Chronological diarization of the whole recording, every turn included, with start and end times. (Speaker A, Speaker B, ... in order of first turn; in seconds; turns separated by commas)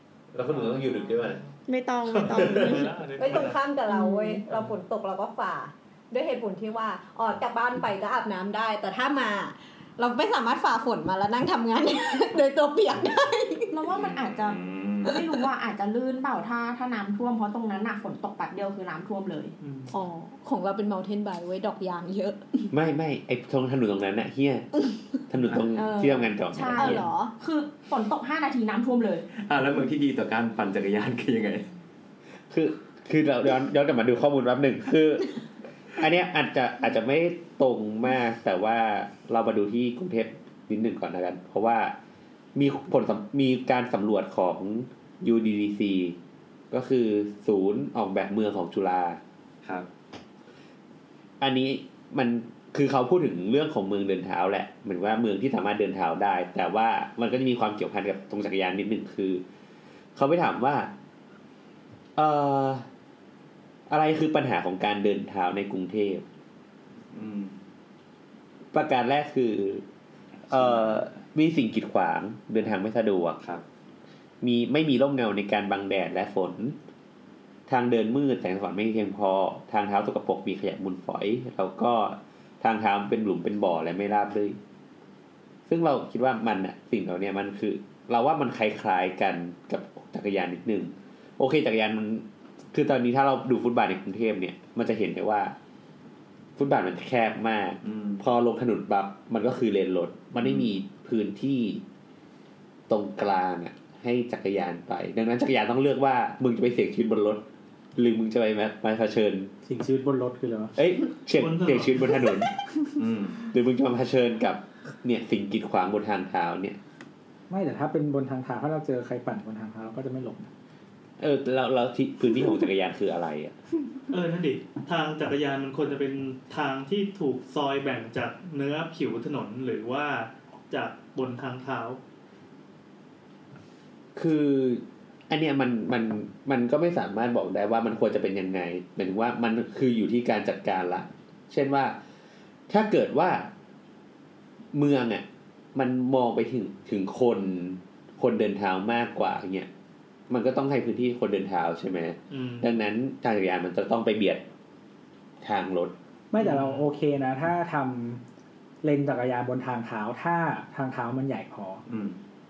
Speaker A: 0.3-1.4, Speaker B: 0.5-1.5, Speaker C: 1.7-2.9, Speaker B: 2.1-3.6, Speaker A: 2.3-2.8, Speaker D: 3.2-13.8, Speaker C: 3.9-4.4, Speaker C: 13.7-19.6, Speaker E: 14.0-15.2, Speaker B: 19.6-19.9, Speaker D: 19.9-22.7, Speaker A: 22.7-24.7, Speaker A: 25.3-27.1, Speaker C: 25.8-29.3, Speaker D: 26.7-27.3, Speaker E: 29.3-31.7, Speaker A: 32.5-35.4, Speaker A: 36.0-42.0, Speaker A: 42.5-46.2, Speaker A: 46.7-49.2, Speaker E: 49.6-49.9, Speaker A: 51.4-59.4, Speaker A: 60.1-60.9, Speaker A: 62.2-62.9, Speaker A: 63.9-66.2, Speaker E: 67.1-67.6, Speaker A: 68.7-69.8, Speaker E: 70.5-71.2, Speaker A: 70.5-73.4, Speaker A: 74.4-76.8, Speaker A: 77.7-84.6, Speaker A: 85.7-95.5, Speaker A: 96.6-101.8, Speaker E: 97.8-98.2, Speaker E: 100.4-100.7, Speaker A: 102.9-107.4, Speaker A: 108.0-109.5, Speaker F: 109.7-110.8, Speaker A: 110.8-112.5, Speaker B: 111.4-112.2, Speaker E: 113.0-113.4, Speaker A: 113.5-116.8, Speaker F: 117.5-120.5, Speaker A: 121.2-123.5, Speaker B: 124.1-132.0, Speaker A: 134.2-142.0, Speaker A: 142.7-143.5, Speaker A: 144.7-149.7, Speaker A: 150.3-154.4, Speaker B: 152.3-152.7, Speaker A: 155.4-155.9, Speaker F: 156.3-158.2, Speaker B: 156.4-156.9, Speaker F: 158.8-161.8, Speaker E: 161.9-162.2